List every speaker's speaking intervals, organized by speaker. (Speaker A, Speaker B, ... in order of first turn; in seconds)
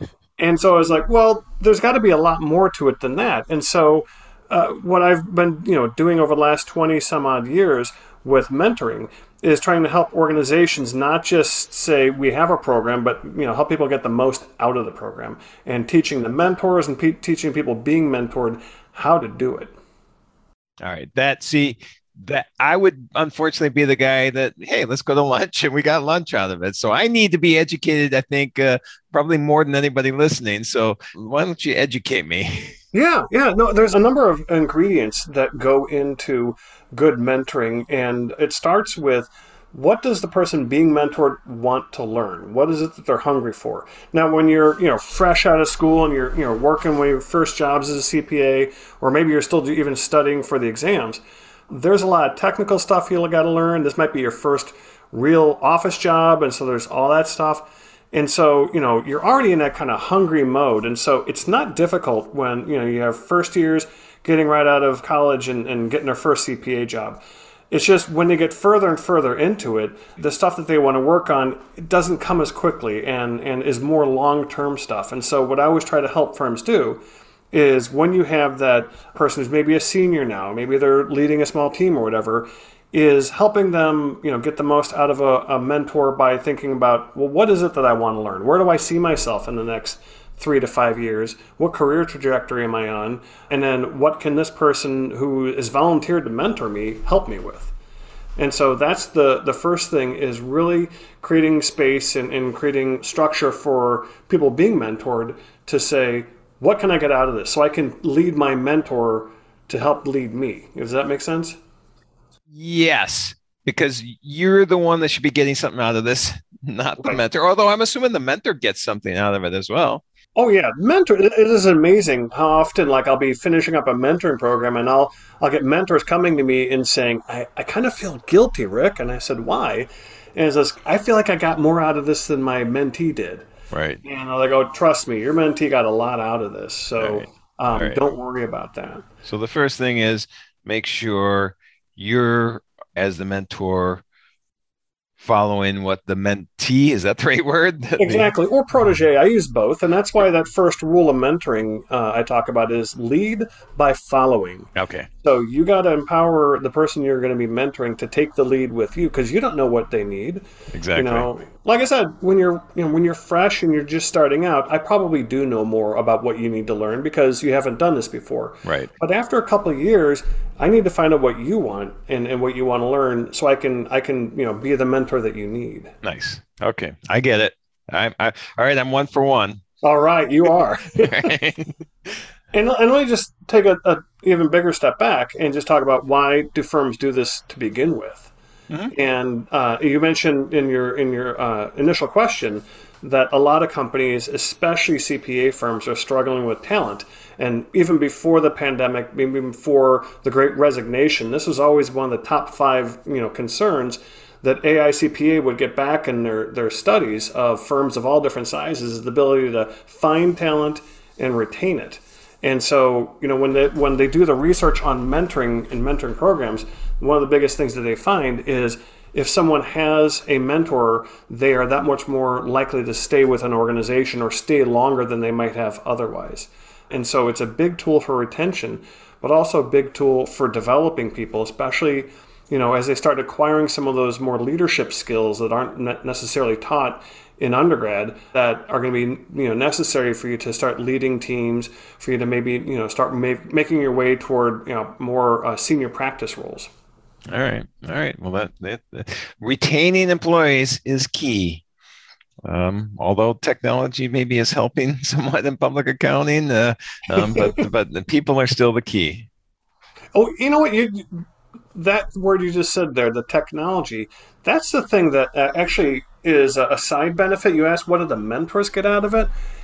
Speaker A: 0.4-19.7, 32.9-77.0, 77.5-97.7, 98.4-111.6, 120.3-133.5, 134.0-139.0, 148.0-154.7, 155.2-175.9, 179.8-181.3, 182.5-188.3, 188.9-246.7, 257.3-257.6, 260.1-269.3
Speaker B: 20.8-32.8, 112.5-120.0, 133.7-134.0, 137.0-138.0, 139.2-144.0, 145.2-148.3, 154.7-155.1, 160.7-161.3, 168.6-168.9, 176.0-179.6, 181.0-182.1, 247.3-251.6, 252.4-259.3